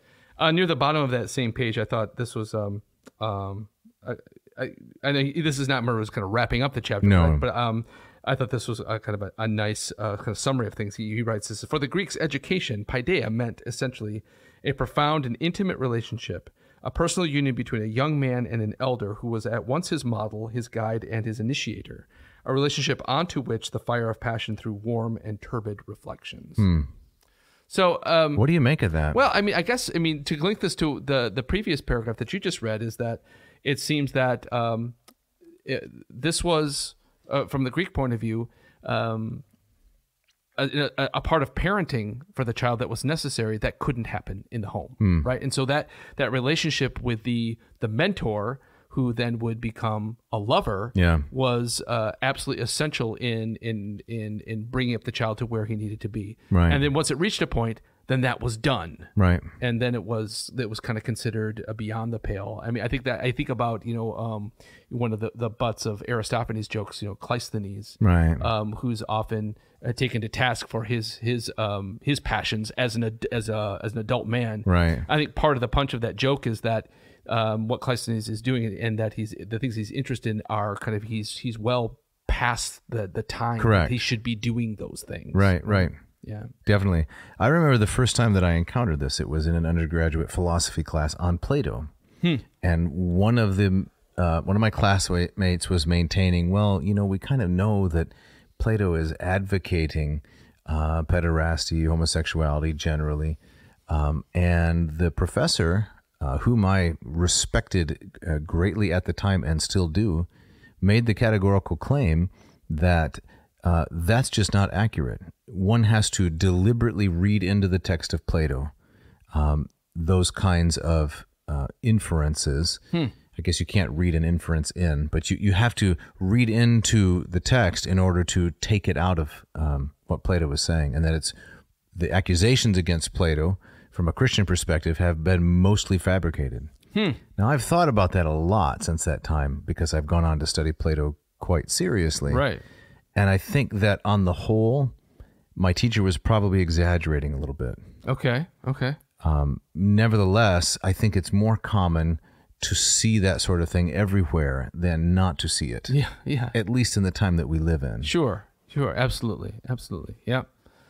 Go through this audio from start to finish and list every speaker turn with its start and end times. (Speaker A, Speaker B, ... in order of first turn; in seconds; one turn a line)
Speaker A: 0.4-26.7
Speaker B: 7.0-7.5
Speaker B: 26.6-26.9
Speaker A: 27.7-28.5
Speaker B: 28.4-29.2
Speaker A: 29.1-35.0
Speaker A: 35.6-39.4
Speaker A: 40.6-86.5
Speaker B: 45.0-45.3
Speaker B: 51.0-51.3
Speaker B: 56.5-56.8
Speaker B: 59.2-59.5
Speaker B: 68.0-68.5
Speaker B: 74.7-75.1
Speaker B: 83.6-84.0
Speaker B: 85.3-86.0
Speaker B: 86.7-91.9
Speaker B: 92.6-110.3
Speaker B: 110.8-118.7
Speaker B: 119.3-122.8
Speaker B: 123.3-131.3
Speaker B: 131.9-136.7
Speaker A: 136.9-137.2
Speaker B: 137.4-142.4
Speaker A: 142.3-142.6
Speaker B: 143.2-144.9
Speaker B: 145.6-147.8
Speaker A: 148.1-149.0
Speaker B: 149.2-155.9
Speaker A: 155.9-156.6
Speaker B: 156.5-158.1
Speaker A: 158.0-160.5